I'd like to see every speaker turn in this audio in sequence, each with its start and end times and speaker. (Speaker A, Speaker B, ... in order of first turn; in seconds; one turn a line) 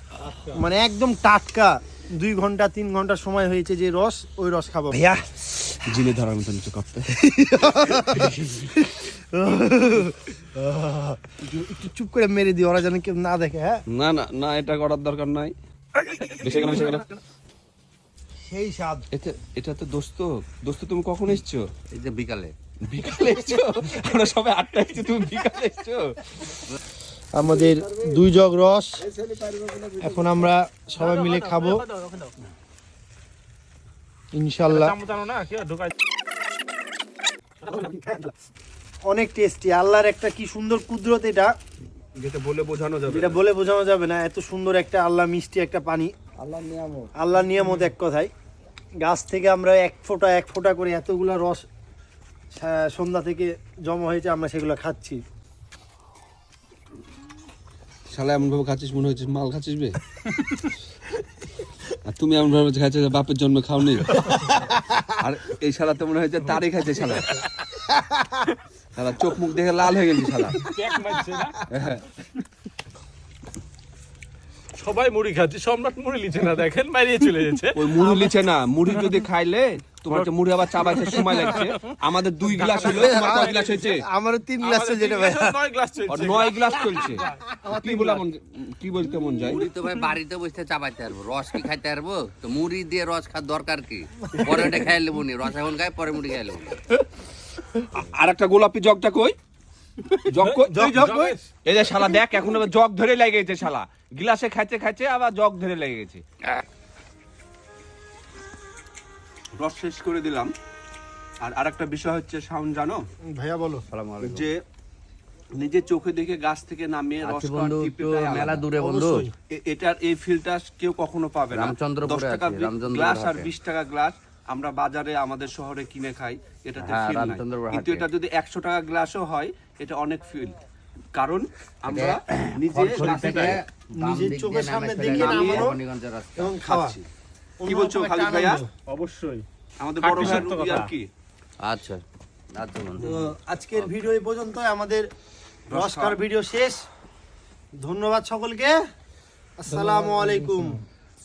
Speaker A: 0.5-5.2
Speaker B: 5.9-7.1
Speaker A: 7.2-13.8
Speaker B: 7.9-8.3
Speaker B: 13.9-15.5
Speaker B: 16.3-17.1
Speaker A: 18.4-19.1
Speaker B: 19.1-21.7
Speaker C: 21.9-22.5
Speaker B: 22.9-26.1
Speaker A: 27.4-29.0
Speaker C: 29.3-29.9
Speaker A: 30.0-31.9
Speaker D: 31.0-32.3
Speaker A: 34.3-35.0
Speaker D: 34.7-35.9
Speaker A: 39.1-41.5
Speaker B: 42.2-43.4
Speaker A: 43.1-46.1
Speaker C: 46.4-47.1
Speaker A: 47.1-48.3
Speaker A: 49.0-51.6
Speaker A: 52.5-55.2
Speaker B: 58.1-59.9
Speaker B: 62.1-64.2
Speaker B: 65.2-67.4
Speaker A: 67.9-68.4
Speaker B: 69.0-70.7
Speaker D: 70.7-71.6
Speaker B: 71.7-72.1
Speaker D: 74.8-78.3
Speaker B: 77.7-84.0
Speaker D: 80.8-82.0
Speaker D: 82.5-83.8
Speaker A: 82.8-85.6
Speaker D: 84.6-87.5
Speaker B: 86.1-89.7
Speaker A: 87.6-88.2
Speaker C: 89.4-96.8
Speaker B: 97.9-99.3
Speaker B: 100.2-101.1
Speaker D: 100.4-101.4
Speaker A: 100.7-101.4
Speaker B: 101.6-106.2
Speaker B: 109.5-110.5
Speaker B: 111.4-113.0
Speaker A: 113.3-113.8
Speaker C: 113.9-114.5
Speaker B: 114.2-114.5
Speaker B: 115.6-118.7
Speaker C: 117.2-119.3
Speaker A: 118.8-119.3
Speaker B: 119.5-130.6
Speaker C: 121.5-123.5
Speaker C: 126.8-128.1
Speaker B: 131.2-133.6
Speaker C: 131.9-136.6
Speaker D: 132.9-133.5
Speaker A: 134.0-135.8
Speaker B: 135.1-135.7
Speaker A: 136.3-137.0
Speaker B: 136.7-137.0
Speaker A: 137.6-138.7
Speaker B: 137.7-138.6
Speaker D: 138.9-139.4
Speaker B: 139.8-141.1
Speaker D: 140.0-140.9
Speaker C: 141.6-142.0
Speaker C: 142.5-143.2
Speaker A: 143.0-145.0
Speaker C: 143.8-144.1
Speaker B: 145.7-146.2
Speaker A: 145.7-146.8
Speaker A: 147.8-148.8
Speaker A: 149.6-150.8
Speaker D: 149.7-150.6